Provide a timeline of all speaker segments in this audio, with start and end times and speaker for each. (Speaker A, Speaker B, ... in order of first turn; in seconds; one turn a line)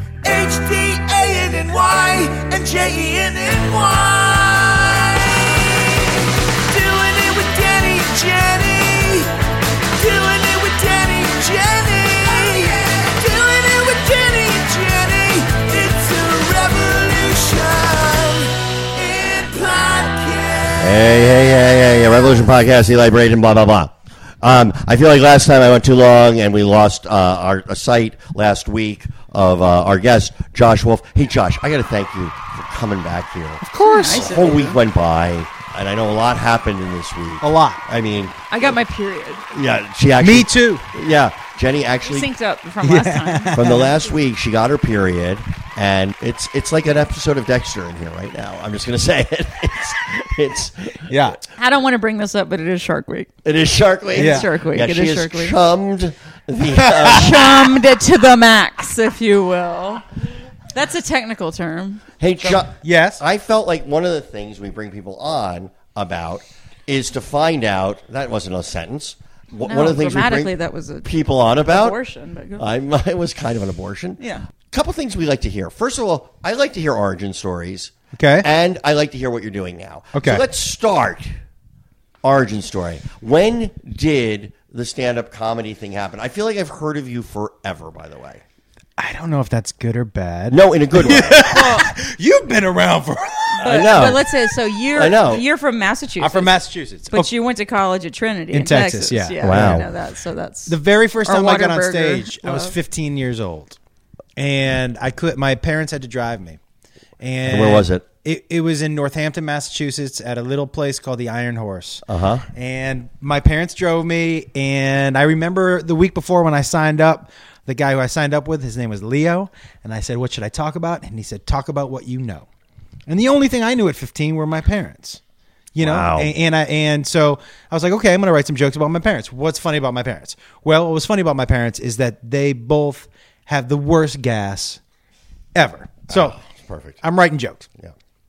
Speaker A: 0.2-9.3
Speaker A: 9.9-21.1
Speaker B: 20.8-38.7
Speaker C: 33.6-34.3
Speaker D: 33.8-34.8
Speaker C: 37.4-37.8
Speaker D: 38.5-39.5
Speaker B: 39.5-42.3
Speaker C: 40.2-40.9
Speaker D: 42.0-43.8
Speaker C: 42.8-43.9
Speaker B: 43.5-51.2
Speaker C: 51.1-51.4
Speaker D: 51.6-53.3
Speaker B: 53.4-57.8
Speaker C: 54.1-54.5
Speaker D: 54.1-55.5
Speaker C: 56.7-57.5
Speaker D: 57.0-60.0
Speaker D: 60.7-62.0
Speaker B: 62.2-70.5
Speaker C: 62.8-63.2
Speaker D: 69.6-71.1
Speaker B: 71.0-72.0
Speaker D: 71.6-72.6
Speaker B: 72.6-81.3
Speaker D: 74.2-74.4
Speaker C: 78.1-78.5
Speaker C: 80.1-80.4
Speaker B: 82.2-88.4
Speaker C: 89.0-94.2
Speaker B: 90.5-91.7
Speaker D: 91.4-91.9
Speaker D: 93.5-96.5
Speaker B: 93.6-94.2
Speaker B: 94.9-95.4
Speaker C: 96.2-97.3
Speaker D: 97.1-102.8
Speaker C: 98.5-99.9
Speaker B: 99.4-99.9
Speaker C: 100.7-103.8
Speaker C: 104.4-106.6
Speaker C: 107.2-122.5
Speaker B: 107.5-108.0
Speaker B: 112.1-112.4
Speaker C: 123.1-125.2
Speaker C: 125.8-134.8
Speaker B: 125.8-126.3
Speaker C: 135.5-136.4
Speaker B: 136.1-137.0
Speaker C: 137.0-137.7